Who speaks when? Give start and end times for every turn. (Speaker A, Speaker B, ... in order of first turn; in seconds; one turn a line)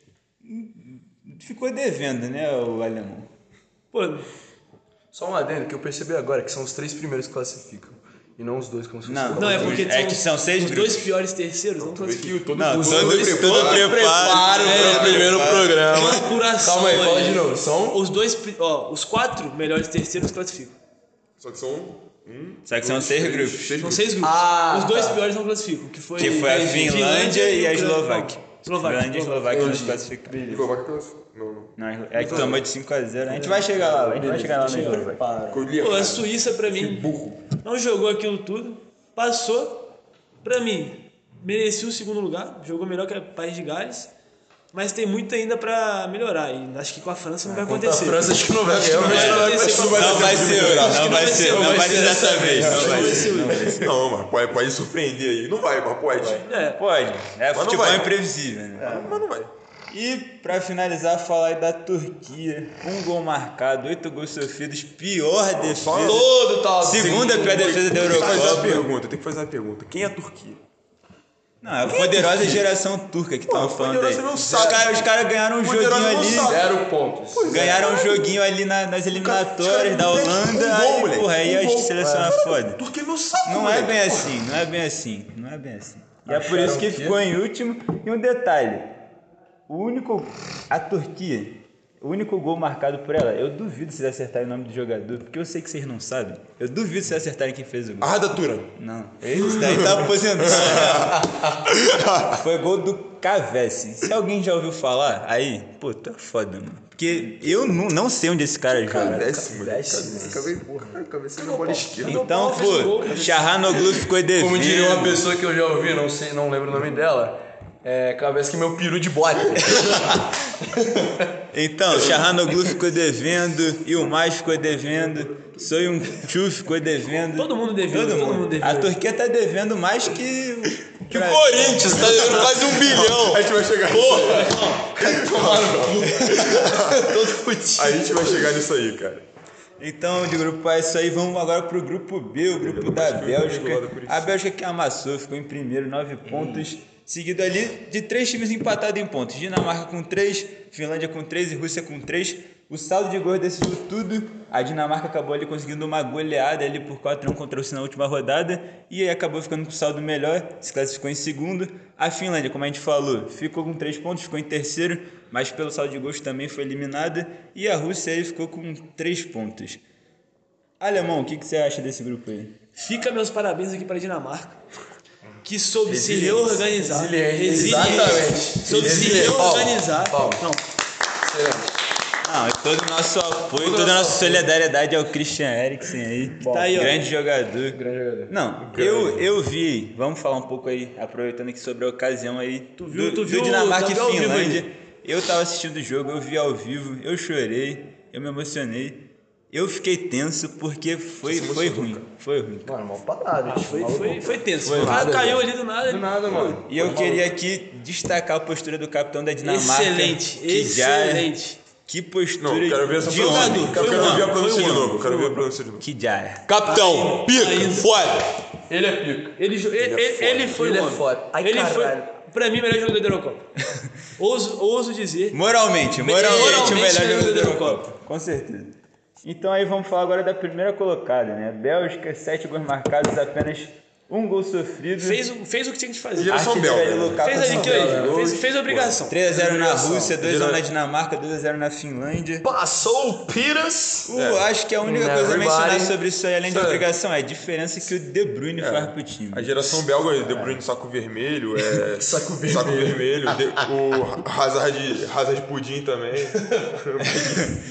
Speaker A: 0.4-3.3
Speaker B: 3.9-4.3
Speaker C: 5.1-9.9
Speaker A: 9.1-11.1
Speaker B: 9.3-12.4
Speaker D: 11.8-15.7
Speaker A: 12.5-15.9
Speaker C: 12.6-18.0
Speaker B: 14.6-20.8
Speaker D: 21.4-24.3
Speaker A: 22.7-23.8
Speaker B: 23.8-29.9
Speaker C: 24.2-25.2
Speaker A: 26.2-30.4
Speaker C: 26.3-26.9
Speaker C: 29.5-30.7
Speaker D: 29.6-32.6
Speaker A: 31.8-35.2
Speaker B: 32.1-32.6
Speaker B: 33.3-33.7
Speaker C: 33.3-35.7
Speaker B: 34.3-35.1
Speaker D: 35.5-37.5
Speaker B: 35.8-39.8
Speaker B: 40.4-44.1
Speaker B: 44.7-53.8
Speaker C: 47.5-53.4
Speaker D: 48.7-51.4
Speaker A: 49.1-49.4
Speaker A: 49.9-53.9
Speaker D: 52.6-56.5
Speaker C: 56.1-56.4
Speaker B: 56.5-56.8
Speaker A: 56.8-59.0
Speaker D: 57.5-58.1
Speaker C: 58.8-59.3
Speaker D: 58.9-59.5
Speaker A: 59.9-68.9
Speaker D: 65.5-66.3
Speaker C: 66.0-68.9
Speaker D: 67.3-70.6
Speaker A: 71.6-76.6
Speaker D: 71.8-72.7
Speaker D: 73.5-75.1
Speaker D: 75.6-76.7
Speaker C: 76.4-77.9
Speaker D: 77.3-78.3
Speaker A: 77.5-82.8
Speaker D: 79.1-84.3
Speaker C: 82.0-82.4
Speaker A: 83.4-88.9
Speaker C: 86.3-87.2
Speaker A: 89.7-98.1
Speaker D: 98.0-102.4
Speaker A: 98.8-101.2
Speaker C: 99.4-99.9
Speaker A: 102.3-109.3
Speaker C: 108.7-112.0
Speaker D: 108.9-112.3
Speaker B: 111.9-113.4
Speaker A: 112.1-115.3
Speaker D: 113.0-113.4
Speaker C: 114.3-121.3
Speaker A: 119.7-120.3
Speaker A: 121.5-132.6
Speaker C: 121.9-122.2
Speaker B: 127.4-129.0
Speaker C: 131.1-138.5
Speaker D: 131.9-137.2
Speaker D: 137.8-139.2
Speaker A: 139.8-169.8
Speaker D: 142.5-144.4
Speaker C: 146.3-146.7
Speaker A: 170.8-172.5
Speaker B: 172.8-174.6
Speaker B: 175.4-180.6
Speaker C: 175.9-180.5
Speaker C: 181.2-181.7
Speaker A: 182.2-202.8
Speaker C: 183.6-184.5
Speaker C: 186.4-186.9
Speaker B: 186.4-187.0
Speaker C: 187.7-188.3
Speaker D: 188.6-189.3
Speaker B: 192.8-194.7
Speaker D: 201.2-202.1
Speaker C: 202.7-207.3
Speaker B: 203.5-206.6
Speaker A: 204.6-205.1
Speaker A: 206.7-211.3
Speaker B: 209.4-211.6
Speaker A: 211.8-214.8
Speaker D: 212.4-215.9
Speaker B: 213.1-215.5
Speaker C: 213.8-214.1
Speaker A: 215.8-216.5
Speaker C: 216.5-219.4
Speaker B: 216.7-217.9
Speaker B: 219.4-223.5
Speaker D: 219.8-220.6
Speaker C: 220.5-222.1
Speaker B: 224.2-225.4
Speaker A: 225.3-235.2
Speaker B: 225.9-227.8
Speaker C: 226.2-226.8
Speaker B: 235.0-236.4
Speaker D: 236.2-240.6
Speaker A: 236.3-238.2
Speaker B: 237.2-239.2
Speaker C: 237.5-238.4
Speaker A: 239.1-242.5
Speaker C: 239.8-240.1
Speaker C: 242.4-244.1
Speaker A: 244.1-249.5
Speaker D: 244.1-244.5
Speaker C: 244.8-246.0
Speaker C: 246.5-246.8
Speaker D: 248.6-257.6
Speaker C: 250.3-250.6
Speaker C: 251.7-253.7
Speaker C: 256.4-256.8